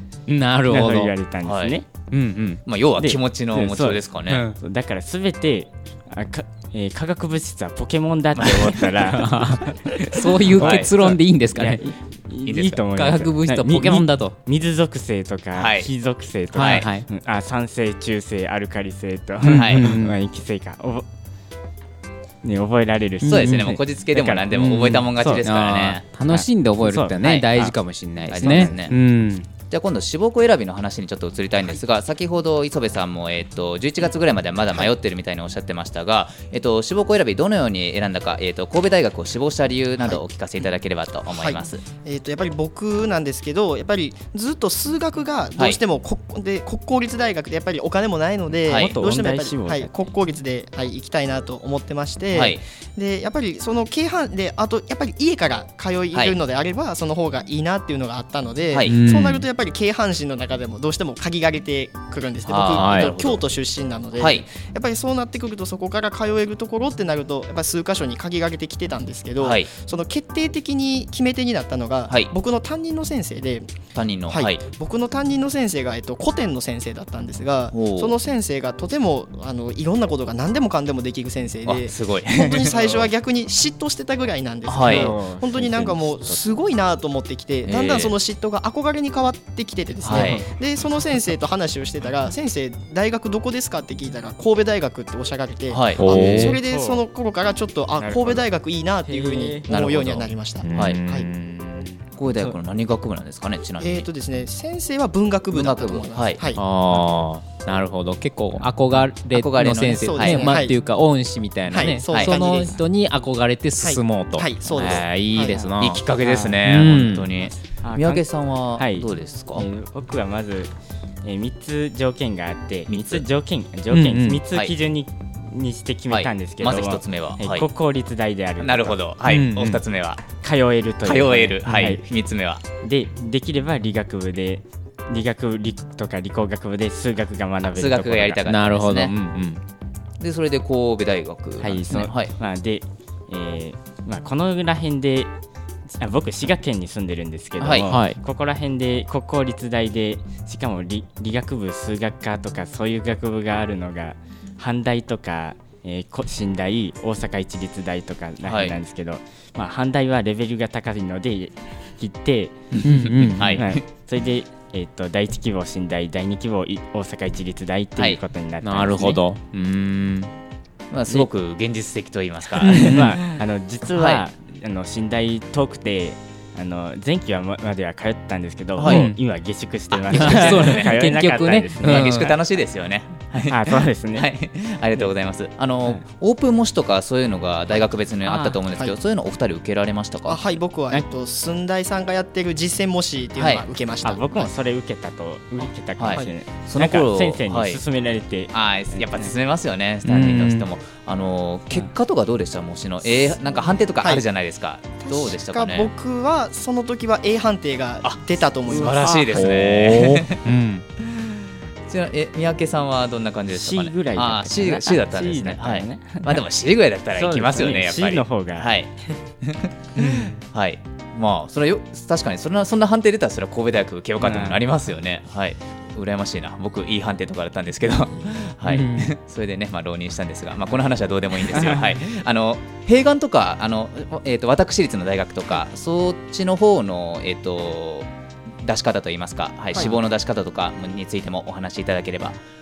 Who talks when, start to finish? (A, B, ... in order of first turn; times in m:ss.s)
0:00.3-0:01.1 A
0:00.7-0:01.8 B
0:01.4-0:01.7 C
0:02.1-0:02.6 A
0:02.6-0:04.4 C
0:03.0-0:21.1 B
0:04.3-0:04.6 A
0:08.4-0:08.9 C
0:09.1-0:11.9 A
0:10.5-0:10.9 C
0:12.4-0:12.8 C
0:12.8-0:14.4 A
0:15.5-0:15.9 C
0:16.5-0:16.8 C
0:16.5-0:17.1 A
0:19.4-0:20.2 A
0:19.5-0:19.9 C
0:22.4-0:25.4 B
0:23.2-0:23.8 A
0:23.2-0:26.0 C
0:24.5-0:29.5 A
0:26.3-0:27.7 B
0:27.2-0:27.7 C
0:28.3-0:28.9 C
0:28.3-0:28.9 B
0:29.7-0:41.8 C
0:41.3-1:13.7 D
0:48.7-0:49.0 C
0:48.7-0:50.0 B
0:52.3-0:52.6 C
0:58.8-0:59.4 A
1:02.5-1:03.4 C
1:02.7-1:03.1 A
1:04.2-1:04.4 C
1:09.4-1:09.7 C
1:13.9-1:14.6 C
1:14.3-1:41.3 D
1:17.7-1:18.1 C
1:21.6-1:23.1 C
1:24.7-1:25.1 C
1:24.8-1:26.4 B
1:27.7-1:28.1 C
1:30.0-1:30.4 C
1:30.1-1:30.5 B
1:35.7-1:36.4 C
1:36.0-1:36.6 A
1:36.0-1:37.0 B
1:38.0-1:38.4 B
1:39.0-1:39.7 B
1:39.7-1:41.0 C
1:40.6-1:42.0 A
1:42.2-1:44.0 C
1:43.8-1:46.6 D
1:45.5-1:46.4 C
1:46.6-1:56.0 A
1:49.3-1:50.5 C
1:49.9-1:50.7 D
1:51.7-1:52.8 D
1:52.1-1:52.4 C
1:53.8-1:55.6 D
1:55.2-1:56.7 B
1:55.8-1:59.6 C
1:56.6-1:57.3 A
1:57.5-2:00.7 B
2:01.2-2:09.0 B
2:02.9-2:03.2 C
2:03.9-2:04.4 A
2:06.1-2:07.6 C
2:08.6-2:10.2 C
2:09.3-2:09.8 A
2:10.4-2:12.0 B
2:11.0-2:12.6 C
2:12.8-2:18.5 B
2:17.7-2:19.1 C
2:18.5-2:19.6 A
2:20.2-2:22.3 C
2:21.6-2:25.3 B
2:25.9-2:49.2 B
2:27.6-2:27.9 C
2:27.9-2:28.2 A
2:38.4-2:38.7 C
2:42.8-2:43.6 A
2:43.4-2:43.8 C
2:48.6-2:50.3 A
2:50.9-2:53.4 C
2:52.6-2:53.1 A
2:52.6-3:02.6 B
2:53.9-2:54.2 C
2:58.8-2:59.0 C
2:58.8-2:59.2 A
2:59.9-3:00.9 C
3:00.1-3:02.3 A
3:01.8-3:10.4 C
3:03.4-3:04.3 B
3:08.2-3:08.6 B
3:10.2-3:14.5 D
3:13.4-3:13.6 C
3:14.0-3:19.3 B
3:16.0-3:17.8 C
3:18.5-3:25.9 C
3:20.0-3:20.7 A
3:25.0-3:29.4 D
3:28.0-3:30.4 C
3:28.8-3:29.4 B
3:29.2-3:30.8 A
3:31.9-3:58.1 C
3:33.5-3:36.4 B
3:37.1-3:38.7 B
3:40.0-3:40.3 A
3:44.2-3:44.6 B
3:48.6-3:49.1 A
3:51.5-3:52.0 B
3:58.6-4:02.4 C